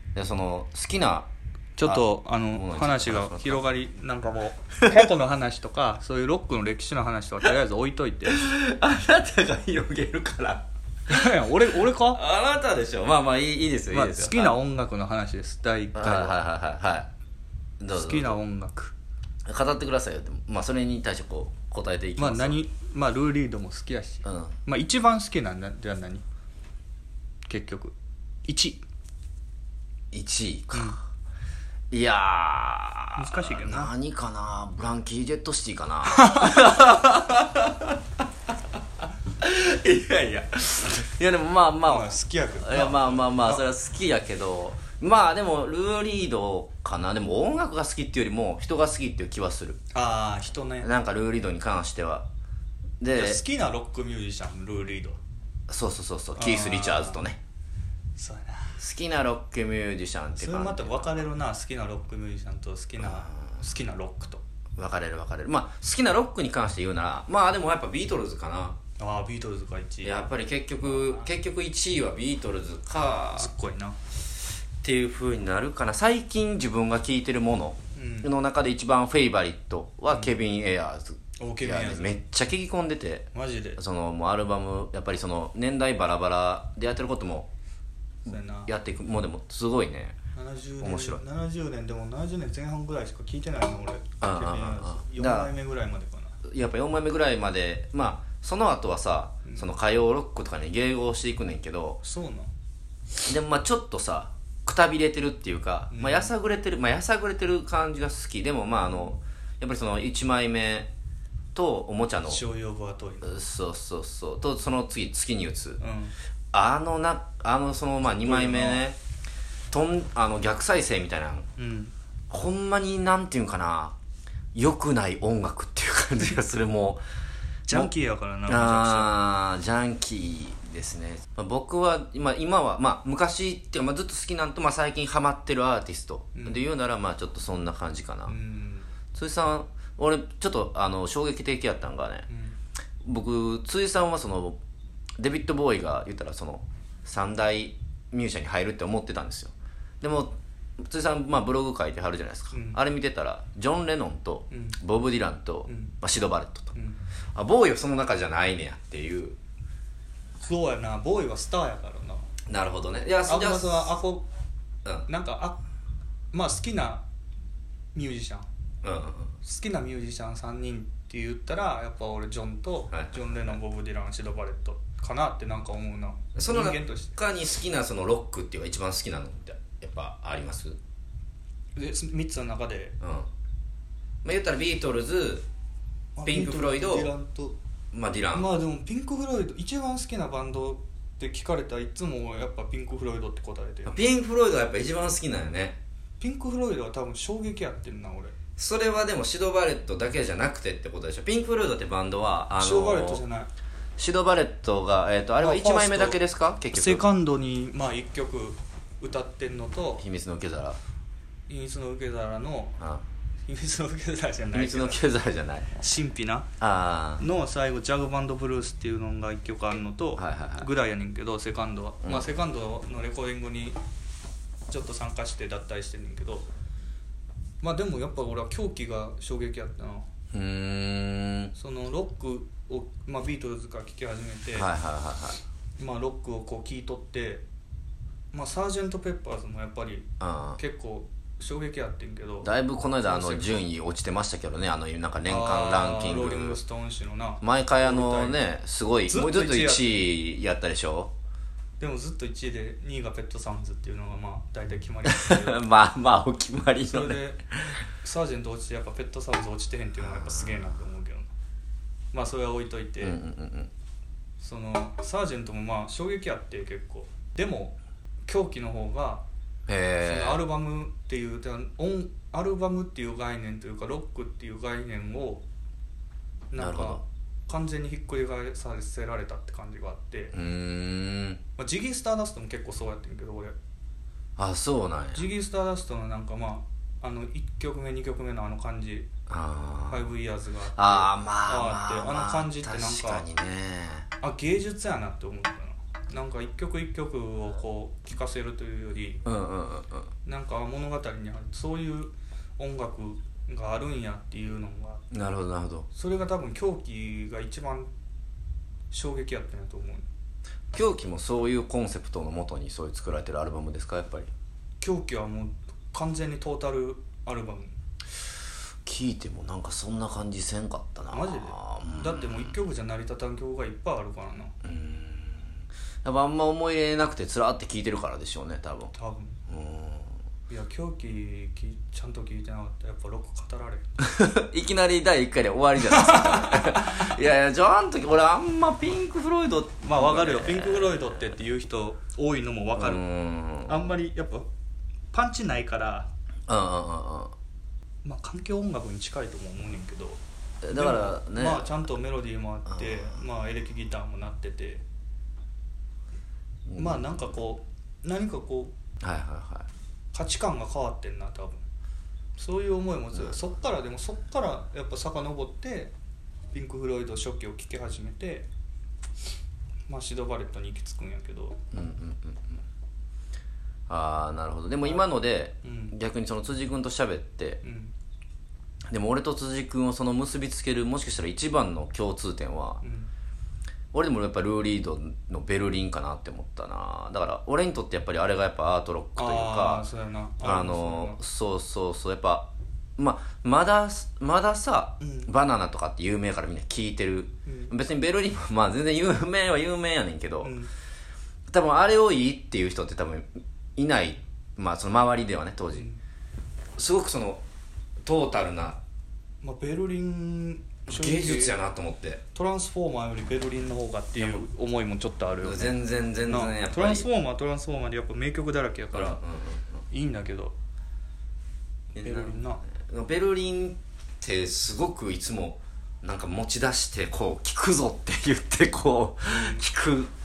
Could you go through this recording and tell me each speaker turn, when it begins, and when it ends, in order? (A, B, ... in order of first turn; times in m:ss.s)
0:00.1-0:01.3 A
0:01.8-0:08.4 B
0:01.8-0:03.6 A
0:08.3-0:10.6 A
0:11.1-0:12.2 B
0:11.9-0:14.6 A
0:13.9-0:16.4 B
0:15.9-0:17.1 A
0:17.8-0:18.4 A
0:17.9-0:18.9 B
0:19.4-0:22.6 A
0:22.2-0:26.2 B
0:24.2-0:24.6 A
0:27.5-0:27.9 B
0:28.5-0:28.8 B
0:30.1-0:31.0 A
0:31.9-0:38.0 A
0:33.2-0:33.9 B
0:36.1-0:36.6 B
0:39.4-0:49.8 A
0:41.9-0:43.6 B
0:49.9-0:50.9 B
0:50.8-0:52.2 A
0:53.0-0:53.4 A
0:53.1-0:55.2 B
0:55.7-0:57.4 A
0:56.4-0:57.2 B
0:58.2-0:58.8 B
0:58.8-1:01.3 A
1:00.4-1:04.4 B
1:03.0-1:03.6 A
1:04.8-1:08.8 A
1:09.0-1:10.2 B
1:10.0-1:13.5 A
1:10.8-1:11.3 B
1:13.0-1:14.0 B
1:14.8-1:27.5 A
1:17.9-1:18.3 B
1:20.1-1:20.4 B
1:21.4-1:22.2 B
1:23.3-1:23.8 B
1:28.2-1:28.7 B
1:28.3-1:30.2 A
1:30.3-1:36.4 B
1:30.8-1:31.2 A
1:34.2-1:35.5 A
1:36.4-1:42.0 A
1:39.4-1:39.7 B
1:42.0-1:42.5 B
1:43.2-1:50.9 A
1:45.9-1:46.3 B
1:51.5-1:52.4 A
1:52.3-1:53.4 B
1:53.2-1:55.8 A
1:55.8-1:56.1 B
1:56.5-1:59.0 A
1:58.0-1:58.8 B
1:59.7-2:01.5 A
2:01.6-2:01.9 B
2:02.3-2:03.9 A
2:04.5-2:07.0 A
2:07.7-2:09.2 B
2:08.5-2:18.4 A
2:16.3-2:16.7 B
2:18.3-2:18.9 B
2:19.1-2:22.3 A
2:22.3-2:22.6 B
2:23.0-2:24.6 A
2:25.2-2:36.7 A
2:32.5-2:32.8 B
2:34.5-2:34.8 B
2:35.6-2:36.0 B
2:36.7-2:37.0 B
2:37.4-2:39.4 A
2:40.4-2:42.3 B
2:42.5-2:43.9 A
2:43.2-2:44.2 B
2:45.1-2:45.6 B
2:46.3-2:47.0 B
2:47.9-2:48.4 B
2:48.8-2:49.3 A
2:49.4-2:57.2 B
2:52.9-2:53.6 A
2:56.3-3:00.8 A
3:01.8-3:03.0 B
3:03.0-3:03.3 A
3:04.2-3:05.4 A
3:06.2-3:07.6 B
3:06.2-3:07.1 A
3:07.9-3:08.5 A
3:08.3-3:14.1 B
3:13.8-3:15.8 A
3:16.2-3:18.3 B
3:18.6-3:23.2 A
3:22.6-3:23.5 B
3:24.0-3:27.0 A
3:25.4-3:26.2 B
3:26.7-3:30.0 B
3:30.0-3:30.8 A
3:31.5-3:32.8 B
3:33.5-3:35.0 B
3:34.5-3:35.7 A
3:35.8-3:36.5 B
3:36.6-3:37.2 A
3:37.2-3:43.8 B
3:40.2-3:40.7 A
3:42.0-3:42.3 A
3:44.7-3:46.5 B
3:47.6-3:50.1 B
3:50.3-3:51.5 A
3:51.5-3:54.7 B
3:54.5-3:55.4 A
3:55.8-3:57.4 B
3:58.3-4:02.5 B
4:00.2-4:00.6 A
4:02.4-4:06.6 A
4:03.0-4:03.6 B
4:05.2-4:08.4 B
4:07.4-4:11.1 A
4:09.1-4:10.0 B
4:11.8-4:15.6 B
4:15.0-4:17.8 A
4:16.9-4:17.4 B
4:18.0-4:21.3 B
4:20.0-4:20.8 A
4:22.1-4:23.2 B
4:23.0-4:23.7 A
4:24.4-4:29.2 B
4:29.7-4:30.4 A
4:30.0-4:35.4 B
4:36.5-4:40.3 B
4:36.6-4:37.0 A
4:40.3-4:41.4 A
4:41.6-4:43.5 B
4:44.4-4:45.2 A
4:45.1-4:49.1 B
4:49.3-4:50.1 A
4:49.9-4:53.2 B
4:50.8-4:54.1 A
4:54.2-4:59.2 B
4:59.2-5:00.1 A
5:00.2-5:05.0 B
5:05.1-5:05.9 A
5:05.9-5:07.9 B
5:08.9-5:10.0 B
5:10.7-5:14.3 A
5:14.8-5:17.8 B
5:18.8-5:22.5 A
5:21.1-5:24.5 B
5:24.6-5:28.9 A
5:28.9-5:29.4 B
5:29.5-5:30.1 A
5:30.5-5:34.0 B
5:34.0-5:41.2 A
5:35.9-5:37.1 B
5:39.8-5:43.0 B
5:42.8-5:43.8 A
5:43.6-5:44.5 B
5:45.1-5:46.1 B
5:46.5-5:47.3 A
5:48.0-5:54.8 B
5:50.6-5:51.9 A
5:52.6-5:53.2 A
5:56.6-5:57.3 A
5:56.8-5:58.7 B
5:59.0-5:59.7 A
6:00.1-6:01.6 B
6:02.4-6:05.9 B
6:06.5-6:08.5 B
6:09.9-6:11.6 B
6:11.7-6:12.6 A
6:13.9-6:17.6 A
6:14.8-6:15.1 B
6:15.6-6:16.0 B
6:17.6-6:17.9 B
6:18.9-6:22.8 A
6:22.8-6:23.1 B
6:23.9-6:29.8 A
6:29.2-6:31.2 B
6:30.4-6:40.5 A
6:35.0-6:35.3 B
6:37.4-6:37.7 B
6:40.4-6:40.7 B
6:41.5-6:45.9 A
6:46.8-6:47.4 A
6:48.0-6:48.8 A
6:49.4-6:51.6 B
6:50.9-6:52.2 A
6:52.3-6:59.2 B
6:54.2-6:54.4 A
6:55.4-6:57.1 A
6:58.9-6:59.8 A
6:59.9-7:00.5 B
7:01.9-7:10.1 A
7:02.0-7:02.6 B
7:09.3-7:09.6 B